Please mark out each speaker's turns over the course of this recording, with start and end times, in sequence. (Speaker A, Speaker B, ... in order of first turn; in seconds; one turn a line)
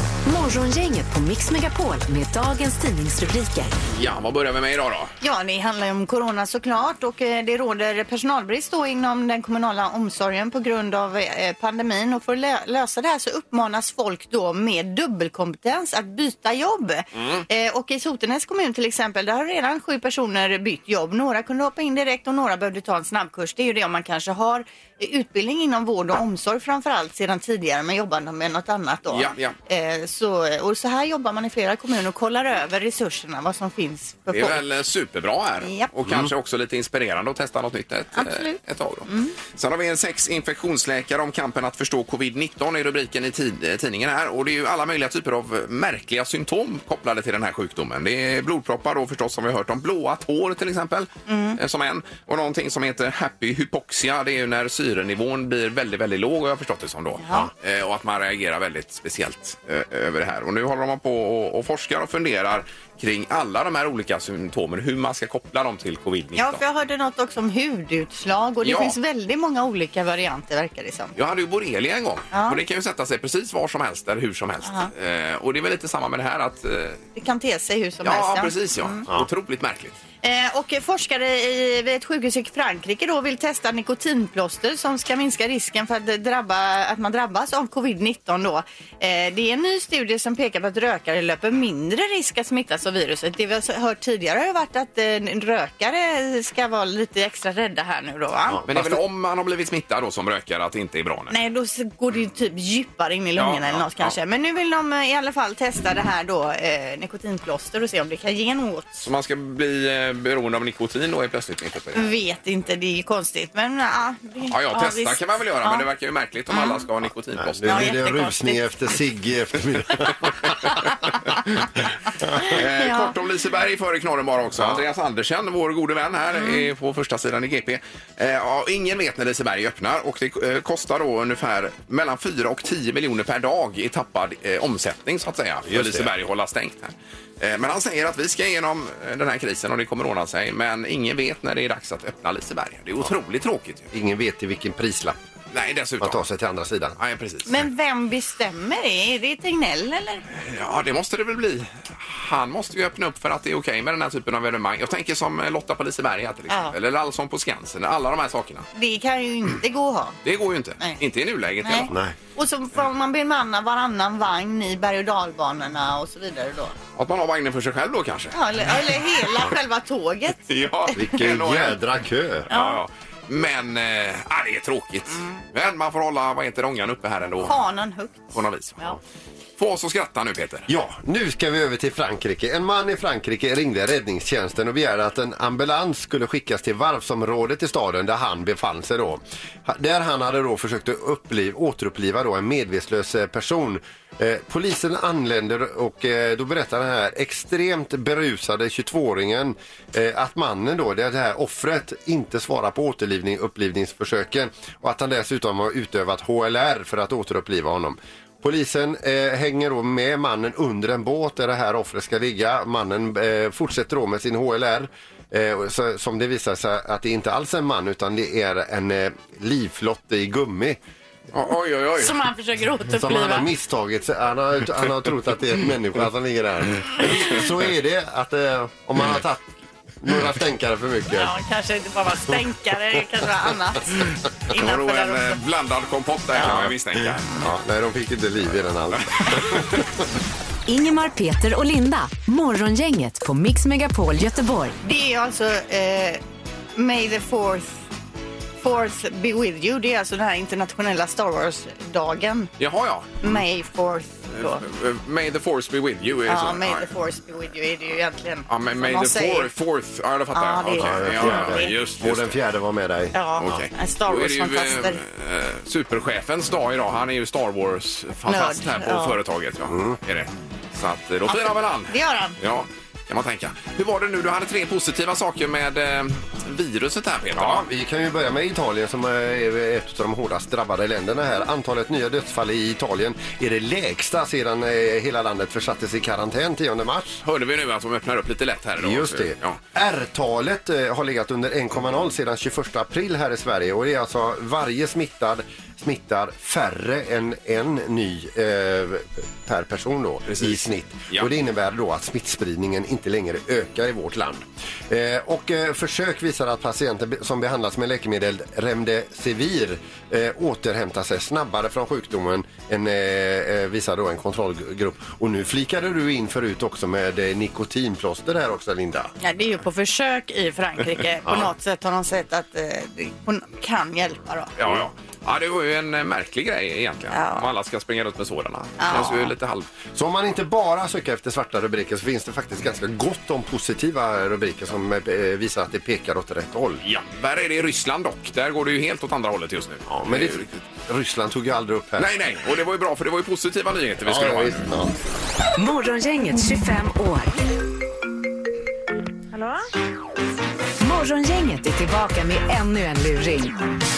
Speaker A: 0.2-3.7
Speaker B: 3.9-5.1
Speaker C: 5.2-34.6
Speaker B: 17.1-17.5
Speaker B: 29.1-29.6
Speaker B: 34.3-66.6
Speaker C: 35.6-35.9
Speaker C: 38.1-39.4
Speaker C: 51.3-51.6
Speaker C: 57.2-57.5
Speaker C: 66.4-71.2
Speaker B: 68.6-69.0
Speaker B: 71.2-77.0
Speaker C: 72.3-72.6
Speaker C: 74.7-74.9
Speaker C: 77.2-79.0
Speaker B: 78.0-80.0
Speaker C: 80.2-98.6
Speaker D: 98.5-99.0
Speaker B: 98.7-101.3
Speaker C: 101.3-109.0
Speaker B: 103.4-104.1
Speaker B: 109.0-112.2
Speaker C: 112.0-115.8
Speaker B: 114.5-118.0
Speaker C: 116.5-116.8
Speaker D: 117.4-120.5
Speaker C: 117.7-118.6
Speaker B: 122.4-143.9
Speaker C: 122.4-123.1
Speaker D: 124.6-124.8
Speaker C: 126.4-126.7
Speaker D: 135.7-136.1
Speaker D: 143.9-145.2
Speaker B: 145.5-146.3
Speaker D: 146.0-147.0
Speaker B: 147.0-147.6
Speaker C: 147.5-150.2
Speaker B: 150.3-158.7
Speaker C: 158.8-160.2
Speaker B: 160.2-161.9
Speaker C: 161.6-166.8
Speaker D: 161.9-162.2
Speaker B: 167.0-168.4
Speaker C: 168.3-170.5
Speaker B: 170.5-171.8
Speaker D: 170.9-172.5
Speaker B: 172.5-177.6
Speaker C: 172.5-172.8
Speaker C: 175.1-175.4
Speaker C: 177.4-179.0
Speaker B: 178.3-178.8
Speaker B: 179.6-180.7
Speaker D: 180.7-220.8
Speaker B: 221.3-222.2
Speaker C: 222.0-223.5
Speaker D: 222.9-229.5
Speaker D: 230.0-231.3
Speaker C: 231.1-235.4
Speaker B: 234.5-237.3
Speaker C: 236.4-236.7
Speaker D: 237.4-239.8
Speaker A: 240.7-244.8
Speaker C: 244.8-246.2
Speaker C: 246.8-247.8
Speaker C: 248.6-252.5
Speaker B: 252.6-253.4
Speaker C: 253.2-254.6
Speaker B: 254.3-256.9
Speaker C: 256.3-259.5
Speaker B: 258.5-262.3
Speaker C: 260.3-261.8
Speaker D: 260.8-263.2
Speaker C: 263.1-265.0
Speaker B: 263.4-277.7
Speaker C: 268.3-269.2
Speaker D: 269.7-270.0
Speaker C: 271.3-272.4
Speaker D: 277.4-287.2
Speaker B: 287.2-289.6
Speaker D: 288.8-319.1
Speaker B: 300.3-301.3
Speaker C: 319.2-324.5
Speaker D: 321.2-321.5
Speaker B: 324.6-329.7
Speaker C: 327.1-327.5
Speaker C: 328.8-329.3
Speaker D: 329.9-336.8
Speaker B: 336.8-340.6
Speaker D: 339.9-342.1
Speaker B: 342.0-344.7
Speaker D: 344.0-344.9
Speaker A: 345.6-347.3
Speaker A: 350.8-353.6